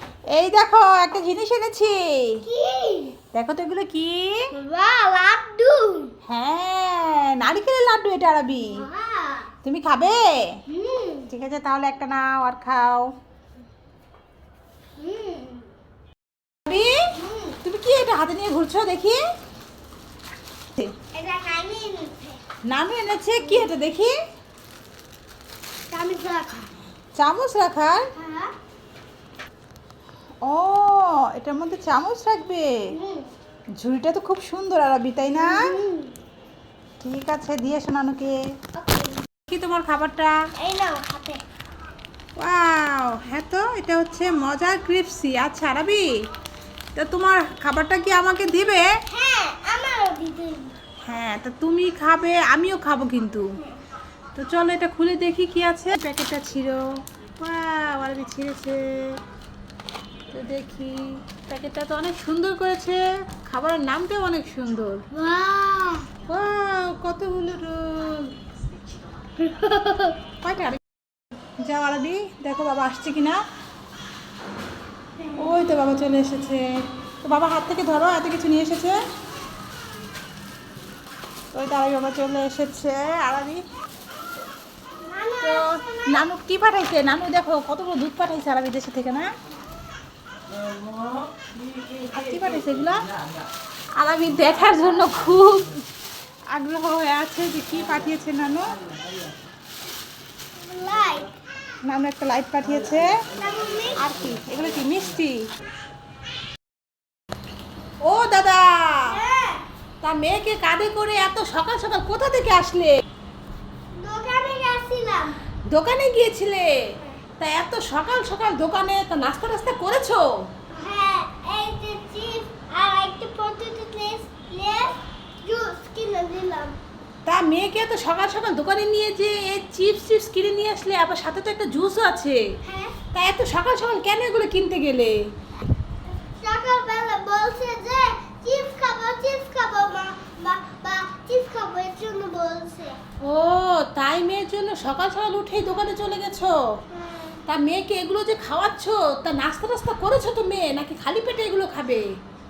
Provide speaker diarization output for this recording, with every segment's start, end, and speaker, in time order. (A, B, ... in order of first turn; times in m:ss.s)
0:00.3-0:02.4 A
0:02.4-0:03.2 B
0:03.3-0:04.5 A
0:04.5-0:06.1 B
0:06.3-0:08.8 A
0:08.7-0:09.5 B
0:09.6-0:10.2 A
0:10.7-0:11.3 B
0:11.3-0:13.1 A
0:15.0-0:15.7 B
0:16.6-0:17.0 A
0:17.1-0:17.6 B
0:17.6-0:19.2 A
0:21.1-0:22.4 B
0:22.7-0:24.1 A
0:23.4-0:23.7 B
0:25.9-0:26.7 B
0:27.2-0:28.1 A
0:28.1-0:28.5 B
0:30.4-0:32.7 A
0:32.9-0:33.3 B
0:33.8-0:35.7 A
0:35.4-0:36.1 B
0:37.0-0:38.4 A
0:38.8-0:39.2 B
0:39.5-0:40.4 A
0:40.6-0:41.4 B
0:42.4-0:46.1 A
0:46.9-0:49.0 A
0:49.0-0:50.7 B
0:51.0-0:53.5 A
0:54.4-0:56.8 A
0:57.4-0:59.2 A
1:00.3-1:05.0 A
1:05.1-1:06.1 B
1:06.3-1:08.2 A
1:09.4-1:10.1 B
1:10.4-1:10.8 A
1:11.6-1:13.4 A
1:15.2-1:15.6 B
1:15.4-1:16.6 A
1:17.2-1:19.0 A
1:21.5-1:23.6 A
1:25.0-1:26.2 B
1:25.4-1:29.3 A
1:32.0-1:33.0 A
1:34.0-1:35.7 A
1:36.5-1:38.7 A
1:40.6-1:41.3 B
1:41.9-1:43.1 A
1:43.4-1:44.1 B
1:44.0-1:45.4 A
1:48.0-1:49.2 A
1:49.0-1:49.6 B
1:50.0-1:53.0 A
1:54.0-1:55.4 B
1:55.7-1:56.8 A
1:57.4-2:00.2 A
2:00.7-2:06.8 B
2:07.2-2:12.4 A
2:12.6-2:13.0 B
2:13.1-2:15.2 A
2:16.4-2:23.0 B
2:23.2-2:26.6 A
2:26.9-2:27.4 B
2:27.5-2:32.1 A